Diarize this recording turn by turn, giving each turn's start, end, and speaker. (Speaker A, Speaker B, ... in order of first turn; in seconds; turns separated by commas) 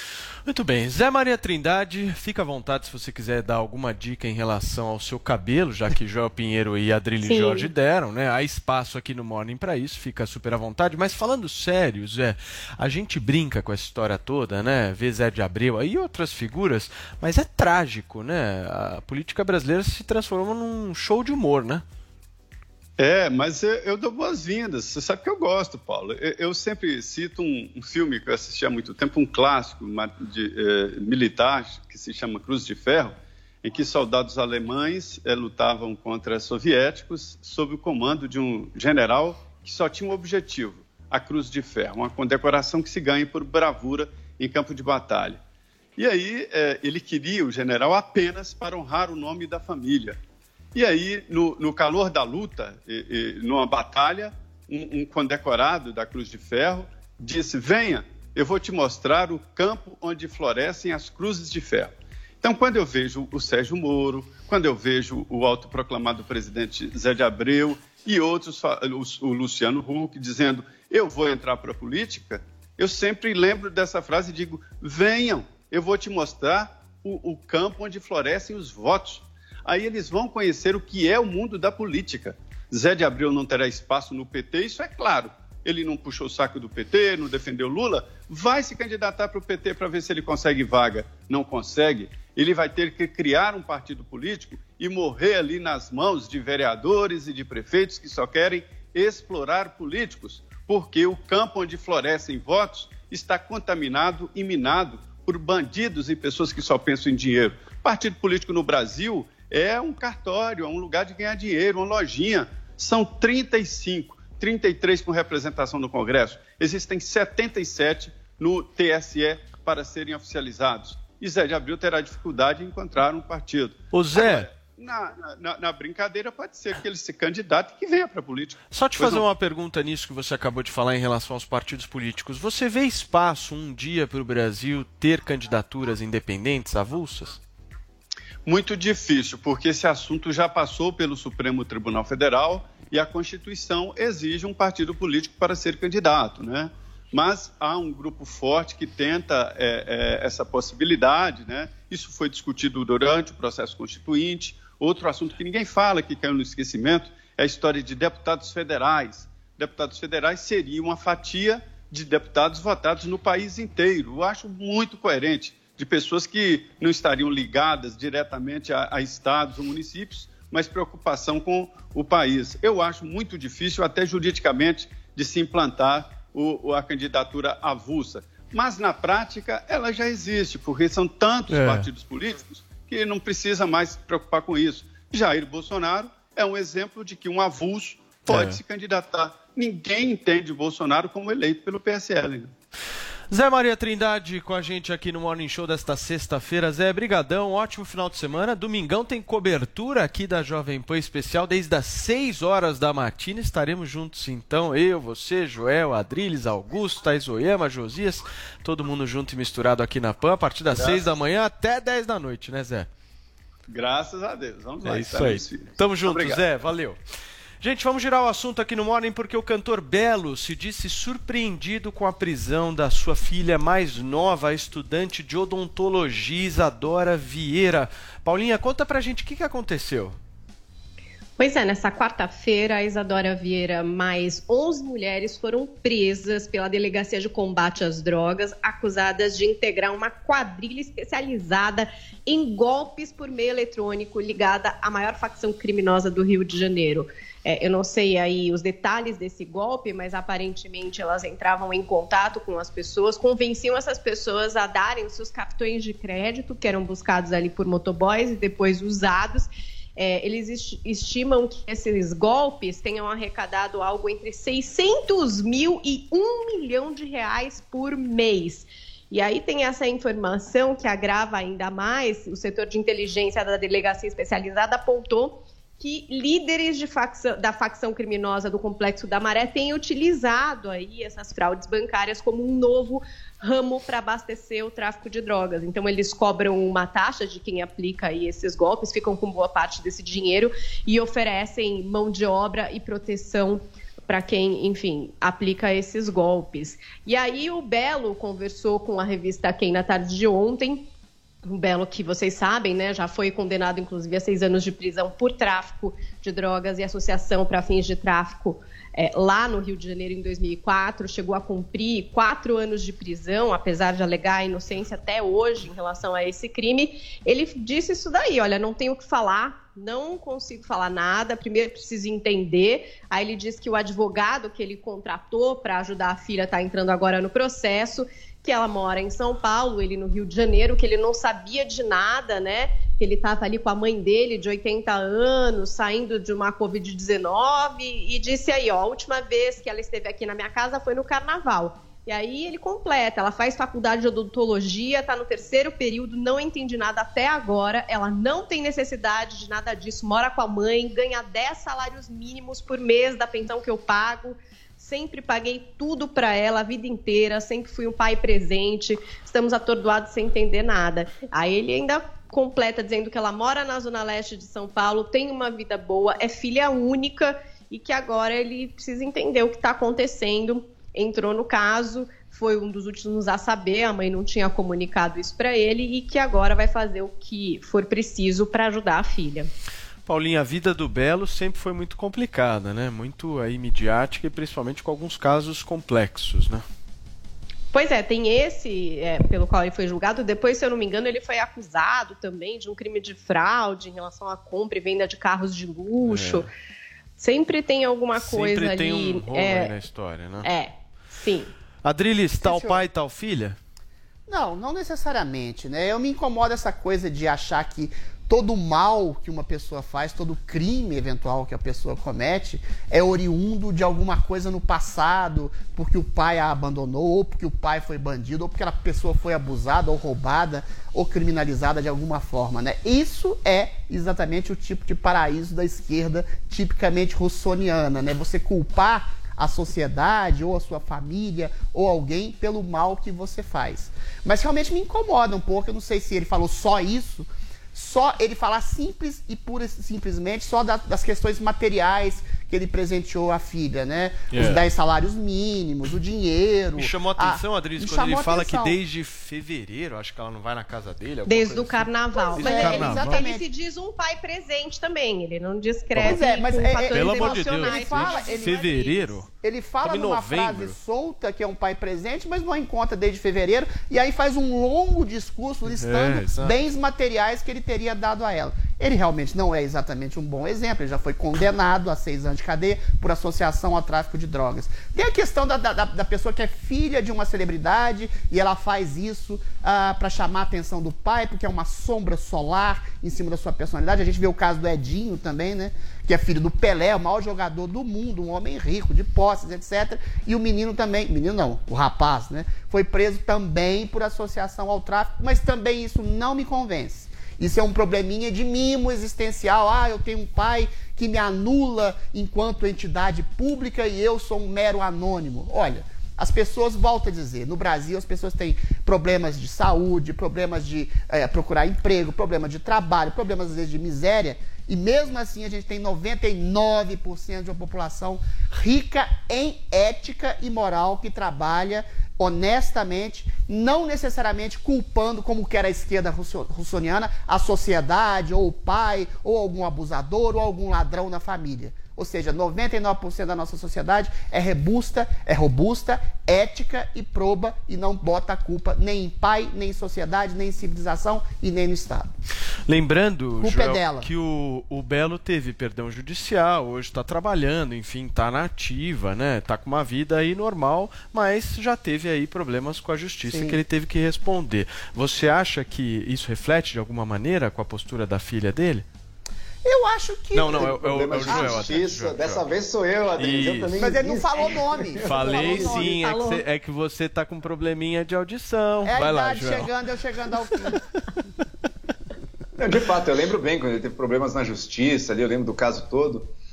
Speaker A: 0.5-21.8, Speaker B: 7.2-7.7, Speaker C: 23.0-45.4, Speaker C: 46.0-50.2, Speaker C: 50.7-129.2, Speaker A: 123.9-124.5, Speaker A: 128.7-137.4, Speaker C: 138.4-192.5, Speaker A: 181.5-181.9, Speaker A: 188.2-188.6, Speaker A: 193.3-212.9, Speaker C: 210.7-211.1, Speaker C: 213.7-216.4, Speaker A: 214.8-217.0, Speaker A: 217.6-230.2, Speaker B: 231.4-300.9, Speaker B: 301.4-379.5, Speaker A: 380.1-386.6, Speaker B: 387.7-396.5, Speaker A: 396.0-396.4, Speaker B: 397.2-399.7, Speaker A: 398.1-400.5, Speaker B: 400.4-401.5, Speaker A: 401.8-403.6, Speaker D: 402.4-402.8, Speaker D: 404.3-448.8, Speaker A: 444.3-444.6, Speaker A: 446.8-453.2, Speaker B: 451.2-459.1, Speaker D: 452.3-453.4, Speaker A: 455.9-456.2, Speaker D: 456.0-458.8, Speaker A: 456.9-459.3, Speaker D: 459.3-542.1, Speaker A: 459.8-460.8, Speaker A: 465.7-466.6, Speaker A: 542.7-558.9, Speaker D: 543.4-544.1, Speaker D: 553.2-553.6, Speaker D: 559.6-561.7, Speaker A: 560.3-562.6, Speaker E: 560.5-566.0, Speaker A: 563.1-563.8, Speaker D: 563.8-566.4, Speaker A: 565.0-569.7, Speaker D: 568.8-570.8, Speaker E: 572.6-576.3